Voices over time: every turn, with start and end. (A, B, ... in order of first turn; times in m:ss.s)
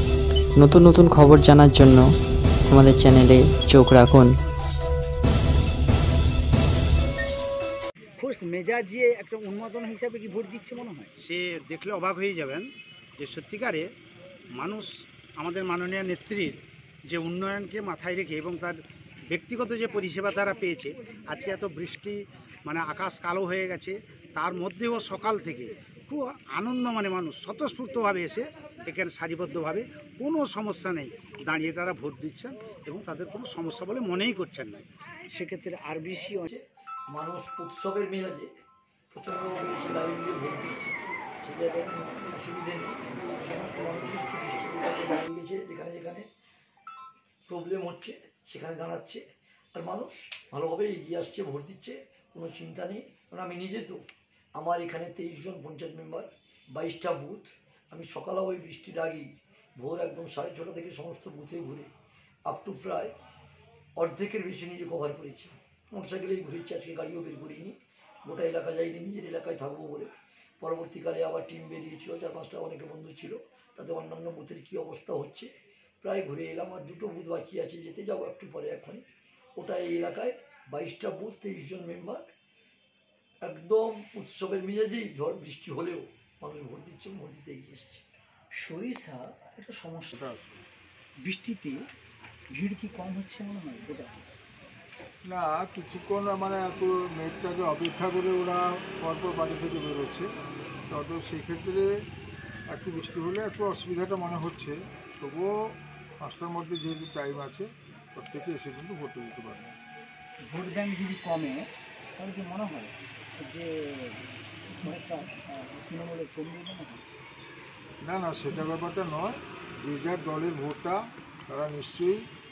0:00.6-0:02.0 A
0:02.7-0:04.3 A
0:08.2-0:11.1 B
0:11.2-0:12.6 C
0:13.2-0:13.8 C
0:14.6-0:18.8 C
0:19.3-0:34.9 C
0:35.3-0:36.5 B
0:36.5-0:38.5 D
0:39.1-0:46.2 D
0:47.5-0:49.2 D
0:49.7-0:54.0 D
0:54.6-1:01.9 D
1:02.5-1:03.1 D
1:04.0-1:10.1 D
1:10.6-1:15.5 D
1:16.0-1:19.0 D
1:19.6-1:22.2 D
1:23.4-1:28.0 D
1:28.6-1:30.1 B
1:30.1-1:30.6 E
1:31.2-1:31.8 B
1:32.5-1:34.2 B
1:35.2-1:40.2 E
1:40.9-1:41.9 E
1:42.7-1:45.5 E
1:46.2-1:49.8 E
1:50.4-1:57.0 B
1:58.0-2:01.0 E
2:01.5-2:02.2 E